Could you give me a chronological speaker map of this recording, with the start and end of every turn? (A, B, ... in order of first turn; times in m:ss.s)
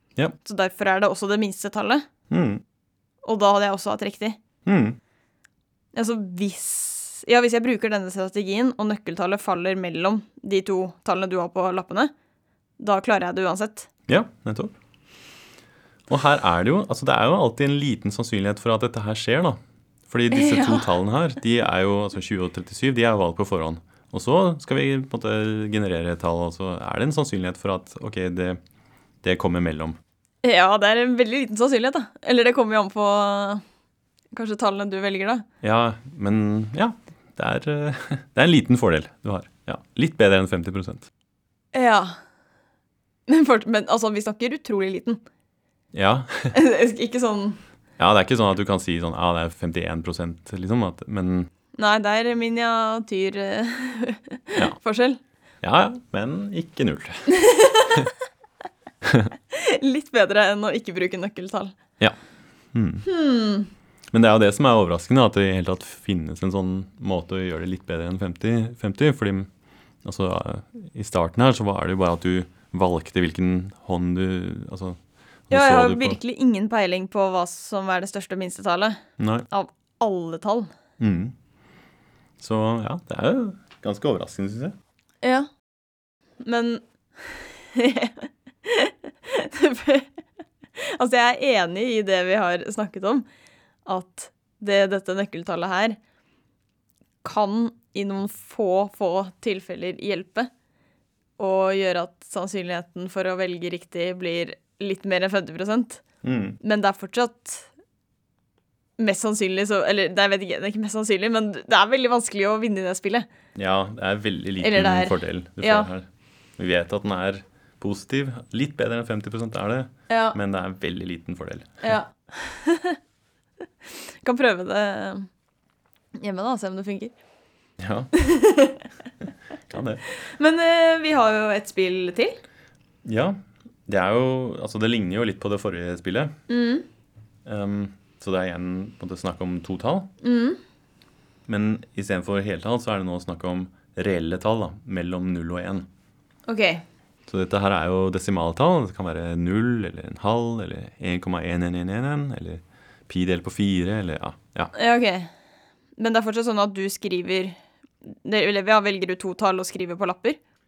0:00.4-0:02.1 A
0:02.3-0:02.6 B
0:03.2-0:04.4 A
0:04.7-0:05.0 B
0:05.9-0:12.1 A
0:12.8-0:13.9 A
0:14.1-0:14.8 B
0:16.1-0:28.6 B
0:20.3-0:20.9 A
0:29.2-0:30.0 B
0:30.4-0:33.6 A
0:34.3-0:35.4 A
0:35.6-0:41.1 B
0:41.7-0:42.2 A
0:43.3-0:45.2 A
0:45.9-0:46.6 B
0:46.5-0:47.6 A
0:48.0-0:51.5 B
0:51.8-0:55.2 A
0:55.6-0:57.3 B
0:57.3-0:58.1 A
0:59.0-0:59.3 B
0:59.5-1:01.8 A
1:02.7-1:03.1 B
1:03.0-1:03.7 A
1:04.1-1:09.5 B
1:10.0-1:16.2 B
1:15.5-1:20.7 A
1:19.2-1:19.5 B
1:21.0-1:21.3 B
1:22.4-1:24.8 B
1:25.2-1:25.5 A
1:26.4-1:30.1 A
1:30.8-1:33.2 A
1:33.9-1:36.0 A
1:37.2-1:40.5 A
1:41.4-1:46.0 A
1:46.2-1:46.6 B
1:46.6-1:47.7 A
1:49.0-1:53.2 A
1:53.6-2:01.9 B
1:54.6-1:55.9 A
2:00.1-2:00.4 A
2:01.8-2:03.0 A
2:04.2-2:05.3 A
2:06.2-2:07.1 A
2:07.8-2:08.1 B
2:08.1-2:08.9 A
2:09.7-2:10.0 B
2:10.1-2:12.4 A
2:13.0-2:16.4 B
2:16.5-2:16.9 A
2:17.4-2:20.1 B
2:20.2-2:20.6 A
2:21.5-2:25.9 B
2:26.5-2:26.8 A
2:27.3-2:34.7 B
2:34.7-2:35.3 A
2:36.0-2:37.6 A
2:38.1-2:40.4 A